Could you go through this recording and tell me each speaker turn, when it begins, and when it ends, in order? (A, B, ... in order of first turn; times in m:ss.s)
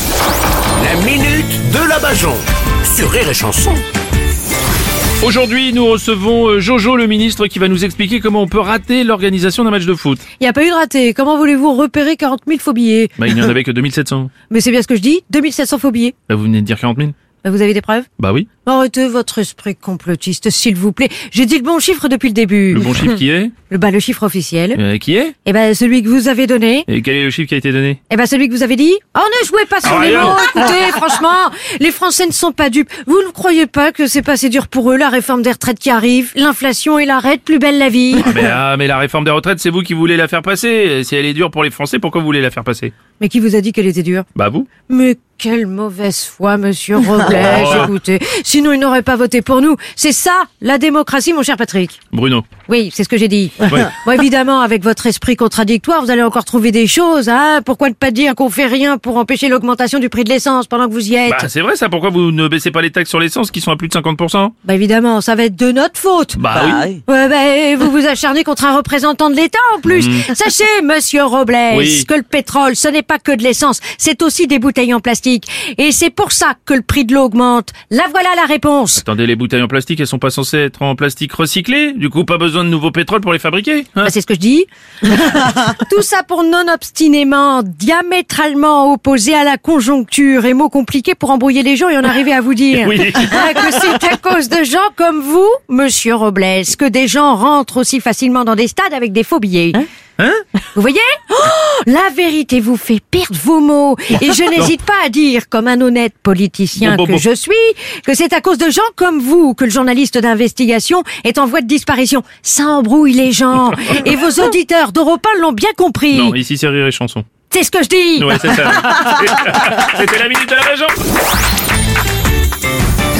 0:00.8-0:03.8 A
0:05.2-0:10.2 B
0:10.4-0:13.2 C
0:13.2-0:14.3 B
0:14.5-0:16.2 C
0:16.3-0:17.2 B
0:17.4-0:18.1 C
0:18.2-0:18.5 B
0:18.7-0:23.2 C
0:22.7-0:23.5 B
0:23.7-0:24.8 C
0:24.8-0:25.4 B
0:25.4-0:26.9 C
0:26.9-0:28.0 B
0:28.1-0:38.4 C
0:29.8-0:30.5 B
0:38.2-0:42.9 B
0:43.2-0:44.3 C
0:44.4-0:44.7 B
0:44.9-0:52.0 C
0:47.3-0:47.9 B
0:52.1-0:52.5 B
0:52.7-1:01.5 C
0:53.6-0:53.9 B
1:01.3-1:04.5 B
1:04.6-1:19.0 C
1:06.4-1:07.0 B
1:09.9-1:10.3 B
1:11.7-1:12.1 B
1:19.0-1:24.1 B
1:24.0-1:39.9 C
1:32.7-1:33.9 B
1:40.2-1:40.4 B
1:40.8-1:56.4 C
1:46.8-1:47.2 B
1:56.1-1:57.3 B
1:57.5-1:59.0 C
1:58.2-2:01.0 B